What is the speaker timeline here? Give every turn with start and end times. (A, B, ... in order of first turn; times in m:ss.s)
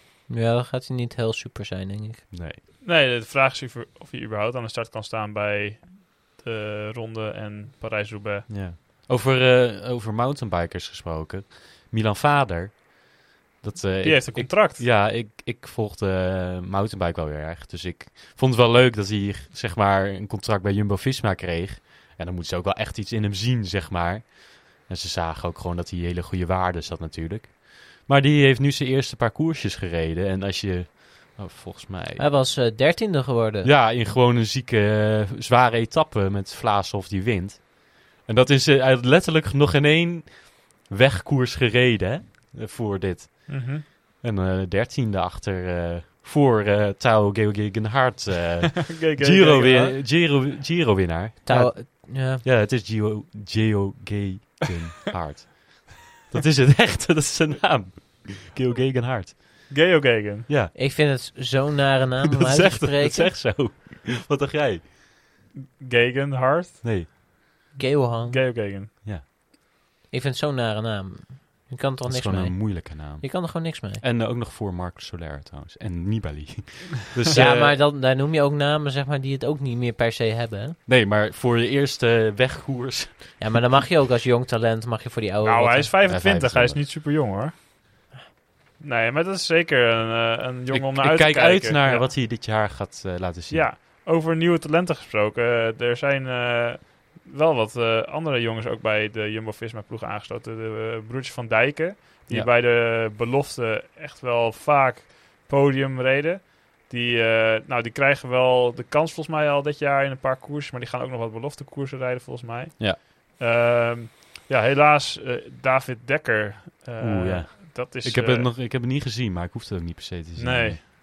0:00.3-0:02.2 A
0:02.3-0:02.6 B
0:02.8-0:08.5 C
0:08.5-0:32.2 B
0:14.0-0:14.8 C
0:32.2-0:33.7 A
0:33.6-0:59.8 B
0:43.5-0:43.8 C
0:48.8-0:50.0 C
0:51.4-0:52.4 A
0:59.7-1:00.5 C
1:00.5-1:00.7 B
1:00.7-1:03.3 A
1:02.3-1:04.9 B
1:05.8-1:06.8 C
1:06.8-1:07.1 B
1:07.8-1:08.4 A
1:08.3-1:08.9 C
1:10.1-1:14.0 A
1:12.0-1:17.8 B
1:17.3-1:20.8 A
1:20.9-1:23.6 B
1:23.4-1:25.9 A
1:25.4-1:27.5 C
1:26.0-1:26.8 B
1:28.8-1:32.1 C
1:30.7-1:33.7 B
1:33.5-1:58.5 C
1:57.0-2:00.8 B
2:00.4-2:00.8 C